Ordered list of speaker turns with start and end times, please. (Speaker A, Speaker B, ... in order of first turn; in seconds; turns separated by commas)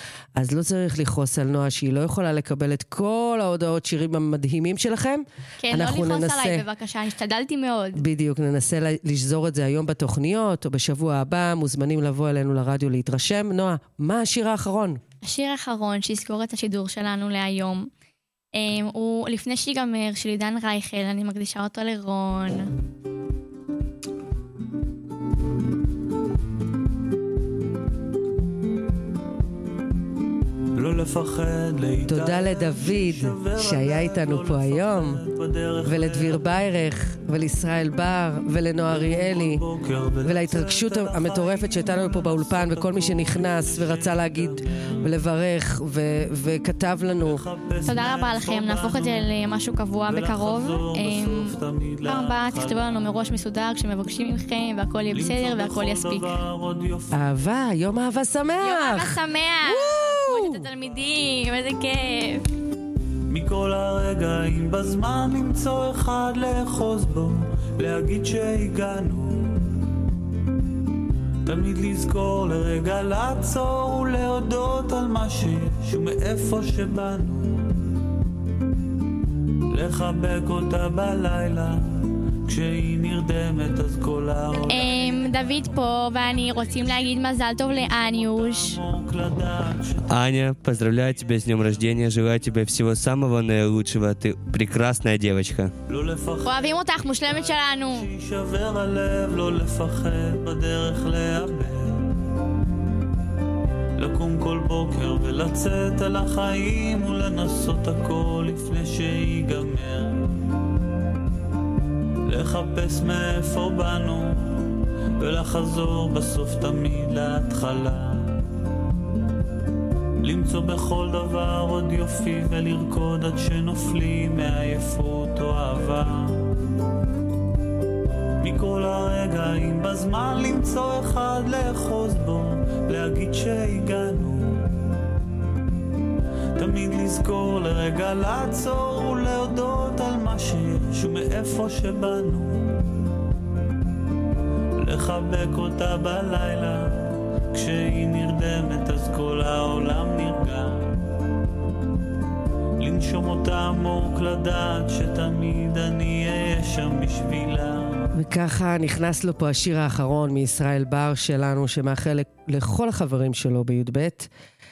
Speaker A: 0.3-6.6, Speaker B: 5.6-8.0, Speaker A: 8.0-15.0, Speaker B: 15.2-17.9, Speaker B: 18.6-22.7, Speaker C: 30.8-36.6, Speaker A: 32.1-35.2, Speaker A: 35.8-39.6, Speaker C: 38.9-45.1, Speaker A: 40.2-47.4, Speaker C: 47.2-49.4, Speaker B: 47.9-51.5, Speaker C: 50.0-53.3, Speaker B: 52.0-56.3, Speaker C: 55.1-57.3, Speaker A: 57.1-60.7, Speaker B: 58.6-62.5, Speaker C: 63.3-69.5, Speaker C: 71.5-77.7, Speaker C: 79.7-85.4, Speaker B: 84.7-88.8, Speaker C: 88.0-92.5, Speaker D: 90.1-95.7, Speaker C: 95.9-102.1, Speaker B: 96.4-98.1, Speaker C: 104.0-110.3, Speaker C: 112.3-114.6, Speaker C: 115.2-118.3, Speaker C: 120.2-126.4, Speaker C: 128.4-134.6, Speaker C: 136.6-142.7, Speaker C: 144.8-150.9, Speaker C: 152.8-158.1, Speaker A: 158.1-164.3